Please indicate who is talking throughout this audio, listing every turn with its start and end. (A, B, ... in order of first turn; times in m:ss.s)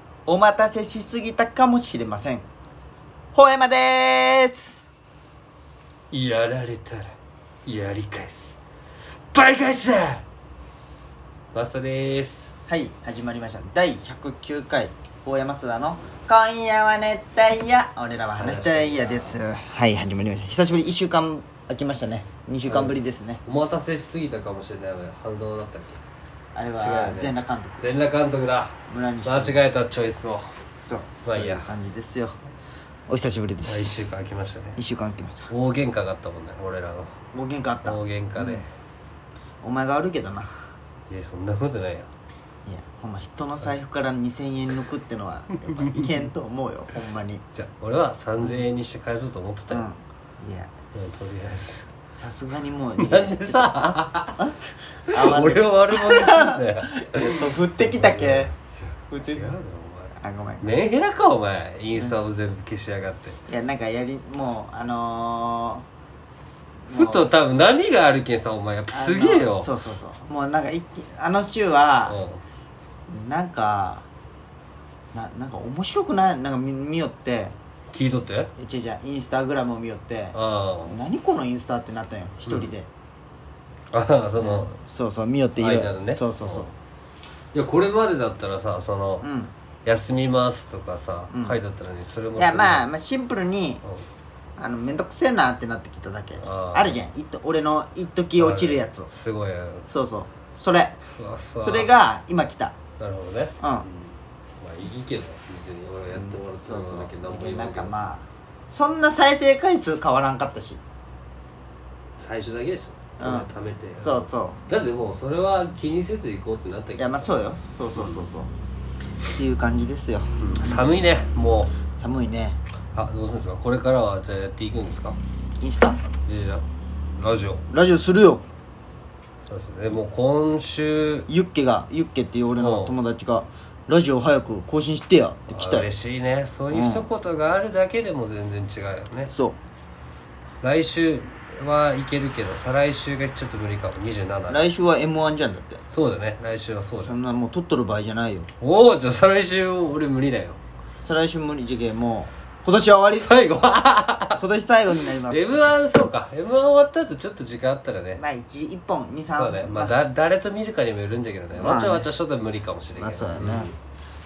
0:00.2-0:02.4 A
0:03.3-0:04.8 A
0:06.1-0:07.1 B
0:07.6-0:08.5 B
0:09.3-0:10.2 B
0:11.5-0:12.5 B
0:12.7-0:23.4 A
0:18.4-0:19.3 B
0:22.7-0:26.0 B
0:26.5-0:27.9 A
0:26.8-0:30.6 B
0:28.9-0:29.6 A
0:30.8-0:32.4 A
0:31.2-0:31.7 B
0:33.1-0:34.0 A
0:33.6-0:34.8 B
0:34.7-0:35.5 A
0:35.5-0:37.1 B
0:37.3-0:38.6 A
0:37.8-0:38.6 B
0:39.6-0:40.5 A
0:41.1-0:42.1 B
0:42.6-0:47.4 A
0:45.7-0:46.1 B
0:47.5-0:49.8 B
0:49.7-0:51.4 A
0:50.9-0:51.9 B
0:52.1-0:54.6 A
0:53.0-0:54.4 B
0:55.1-1:03.4 B
0:55.1-0:58.5 A
0:59.1-0:59.5 A
1:00.2-1:00.7 A
1:03.5-1:05.8 A
1:06.9-1:07.3 A
1:06.9-1:09.7 B
1:08.9-1:12.2 A
1:12.0-1:12.4 B
1:13.1-1:14.0 A
1:15.1-1:17.5 A
1:17.9-1:18.5 B
1:18.6-1:20.4 A
1:20.3-1:21.0 B
1:20.9-1:22.9 A
1:23.9-1:24.7 B
1:24.4-1:26.7 A
1:25.6-1:26.7 B
1:27.5-1:29.2 B
1:29.2-1:29.5 A
1:29.8-1:32.9 B
1:31.3-1:31.6 A
1:32.4-1:33.8 A
1:34.6-1:39.1 A
1:36.4-1:37.0 B
1:38.4-1:39.9 B
1:39.9-1:41.0 A
1:41.1-1:41.9 B
1:41.6-1:42.7 A
1:43.0-1:47.9 B
1:43.6-1:43.8 A
1:46.1-1:50.8 A
1:52.2-1:57.3 B
1:53.2-1:53.5 A
1:54.0-1:54.6 A
1:57.0-1:58.5 A
1:57.9-1:58.2 B
1:59.2-2:00.8 A
2:00.4-2:01.8 B
2:01.9-2:02.6 A
2:02.9-2:05.2 B
2:05.6-2:06.0 A
2:06.2-2:06.6 B
2:07.2-2:07.6 B
2:07.7-2:08.4 A
2:09.4-2:11.3 B
2:11.3-2:15.9 A
2:12.6-2:13.0 B
2:15.5-2:19.3 B
2:16.7-2:17.0 A
2:19.3-2:19.6 A
2:20.6-2:24.6 B
2:24.5-2:25.8 A
2:25.9-2:27.2 B
2:27.0-2:28.5 A
2:28.6-2:30.6 B
2:31.0-2:33.3 A
2:33.2-2:34.4 B
2:34.4-2:35.8 A
2:35.2-2:38.2 B
2:38.2-2:40.0 A
2:39.3-2:43.8 B
2:41.5-2:42.1 A
2:43.0-2:43.7 A